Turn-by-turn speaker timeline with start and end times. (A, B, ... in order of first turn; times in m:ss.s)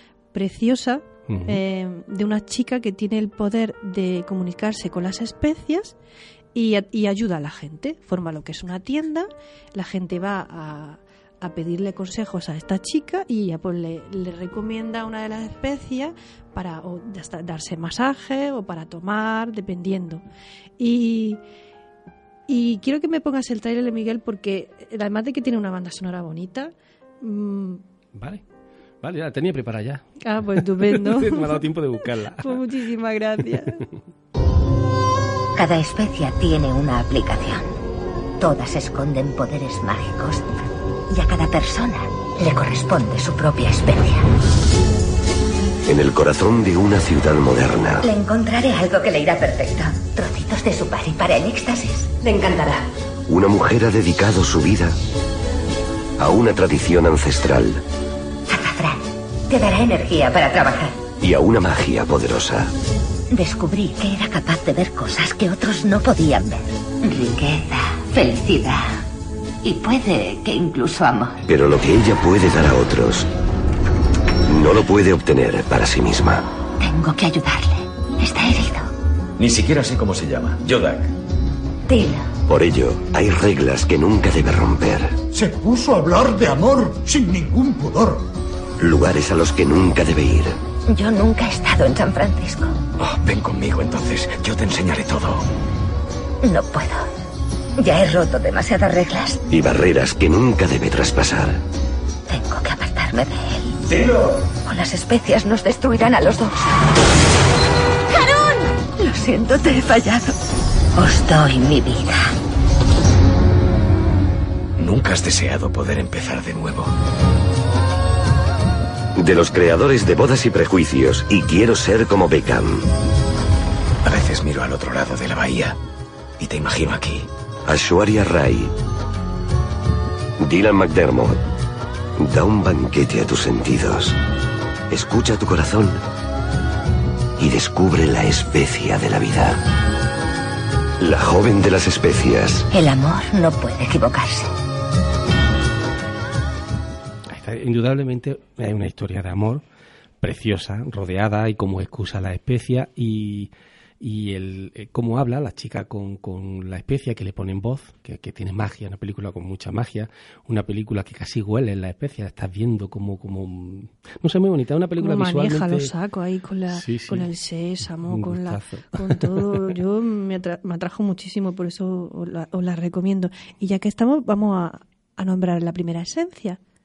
0:00.3-0:06.0 A
0:01.3-0:01.6 B
0:06.5-0:20.2 A
0:20.8-0:21.4 A
0:22.5-0:27.8 A
0:28.1-0:28.4 B
0:29.0-0:32.7 B
0:30.2-0:31.7 A
0:32.3-0:33.8 A
0:33.4-0:34.0 B
0:35.6-0:37.7 C
0:38.4-0:40.6 C
0:41.1-0:44.2 C
0:45.9-0:48.0 D
0:48.0-0:52.8 C
0:53.3-0:55.0 D
0:56.2-0:57.8 D
0:58.5-1:01.0 C
1:01.2-1:02.7 D
1:03.3-1:09.0 C
1:09.6-1:11.4 C
1:11.5-1:13.3 D
1:14.5-1:16.4 D
1:16.8-1:18.9 C
1:19.4-1:21.1 E
1:21.9-1:22.3 C
1:22.5-1:25.1 D
1:25.3-1:28.3 F
1:28.8-1:30.6 D
1:30.9-1:32.8 C
1:33.0-1:35.4 E
1:36.4-1:37.0 C
1:37.8-1:39.4 C
1:39.5-1:41.6 D
1:42.3-1:44.0 C
1:43.9-1:44.3 E
1:44.6-1:46.8 C
1:48.1-1:50.3 C
1:51.0-1:52.3 C
1:54.8-1:56.9 E
1:59.2-2:02.8 D
2:04.0-2:05.8 E
2:06.4-2:07.3 E
2:07.7-2:08.7 D
2:10.4-2:11.4 D
2:12.2-2:14.2 D
2:14.9-2:16.0 D
2:17.4-2:19.6 D
2:21.0-2:22.7 D
2:22.7-2:24.5 C
2:27.3-2:29.6 B
2:30.2-2:45.9 B
2:45.0-2:56.6 A
2:46.7-2:47.3 B
2:48.0-2:49.7 B